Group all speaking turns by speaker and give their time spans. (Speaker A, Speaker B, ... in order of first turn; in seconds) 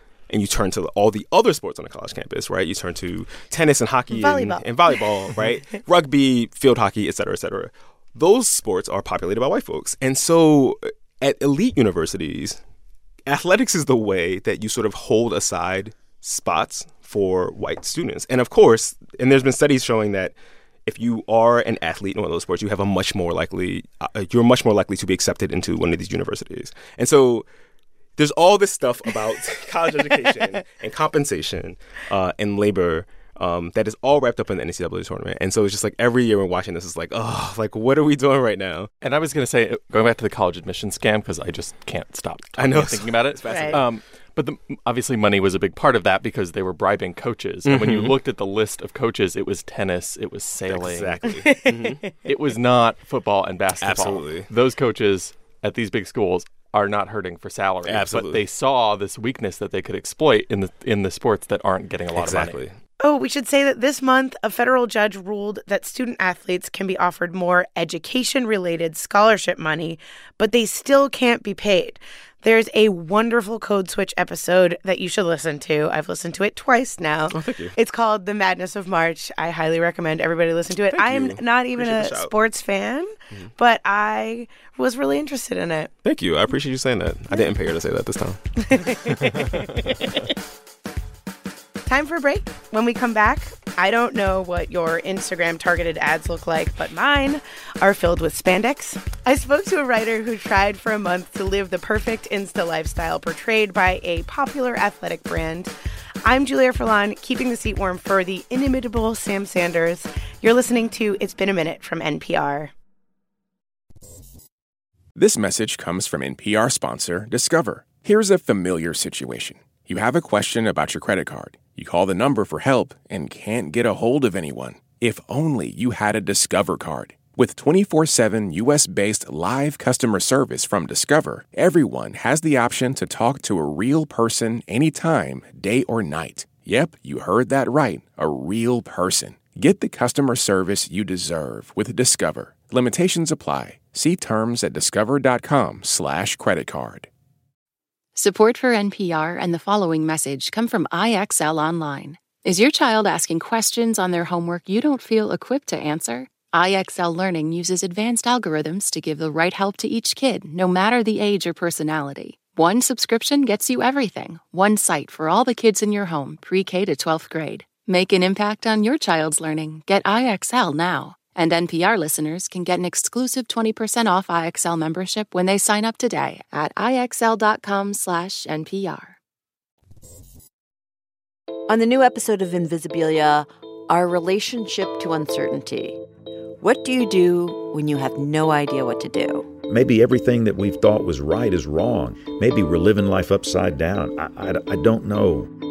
Speaker A: 0.3-12.6, 13.2-20.3, 20.9-27.4, 28.2-38.9, 42.6-43.8, 47.6-48.1, 50.7-52.1, 53.8-54.5, 57.9-58.4, 62.1-62.8, 77.3-77.7, 80.9-82.3, 86.0-89.6
Speaker B: 4.1-5.1, 43.5-43.8, 63.0-85.9, 88.6-90.2, 91.9-105.7, 106.2-112.7
Speaker C: 39.0-51.3, 52.2-62.6
Speaker D: 115.1-147.1
Speaker E: 148.1-179.2
Speaker F: 181.7-186.0, 186.6-189.5
Speaker G: 189.7-195.5